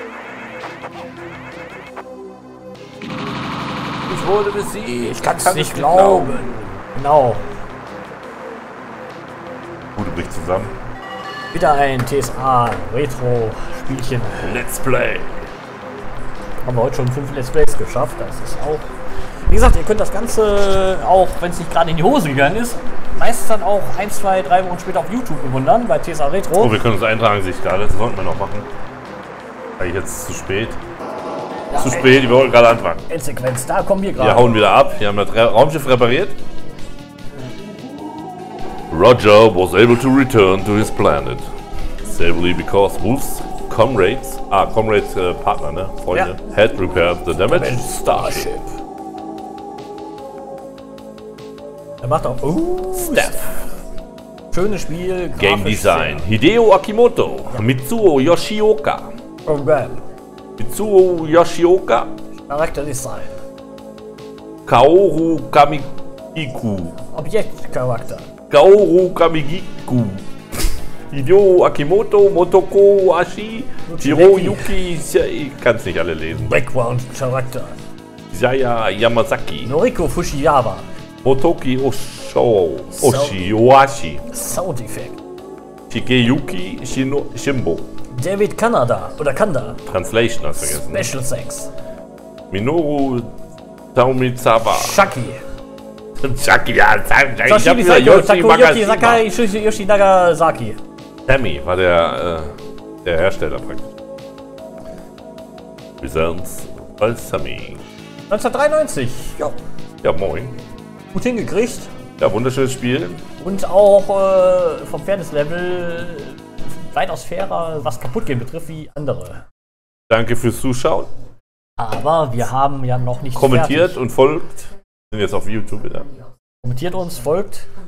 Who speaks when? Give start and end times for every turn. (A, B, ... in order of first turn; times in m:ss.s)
0:04.1-0:06.5 A
0:05.2-0:07.4 B
0:10.0-0:10.7 A
0:11.5-0:14.5 B
0:14.4-0:15.4 A
0:16.6-0:18.8 B
0:19.5-0:26.7 B
0:26.5-0:28.7 A
0:29.8-0:30.8 A
0:31.7-0:33.0 A
0:33.1-0:34.6 B
0:34.2-0:36.4 A
0:38.9-0:41.4 A
0:42.0-0:48.5 A
0:47.4-0:48.6 B
0:52.0-0:53.5 B
0:52.9-0:53.5 A
0:54.5-0:56.2 B
0:55.4-0:59.1 A
0:59.4-1:00.0 B
1:00.6-1:02.1 A
1:02.5-1:03.3 B
1:04.6-1:06.9 A
1:07.1-1:08.3 B
1:08.5-1:10.2 A
1:11.1-1:16.6 A
1:13.9-1:14.7 B
1:16.4-1:17.7 B
1:18.3-1:19.7 A
1:19.6-1:20.8 B
1:21.2-1:24.2 A
1:23.0-1:23.3 B
1:24.3-1:25.2 B
1:25.9-1:27.8 A
1:28.1-1:29.8 B
1:29.9-1:31.1 A
1:30.6-1:31.7 B
1:32.5-1:33.3 A
1:33.9-1:35.1 A
1:34.7-1:35.4 B
1:36.2-1:39.2 A
1:37.4-1:40.8 B
1:41.3-1:42.5 A
1:43.0-1:43.9 A
1:46.0-1:47.8 A
1:48.3-1:49.6 B
1:50.0-1:50.5 A
1:51.1-1:51.9 B
1:52.2-1:53.2 A
1:53.4-1:59.4 B
2:00.1-2:01.1 A
2:01.8-2:04.0 B
2:03.3-2:06.1 A
2:06.6-2:07.6 B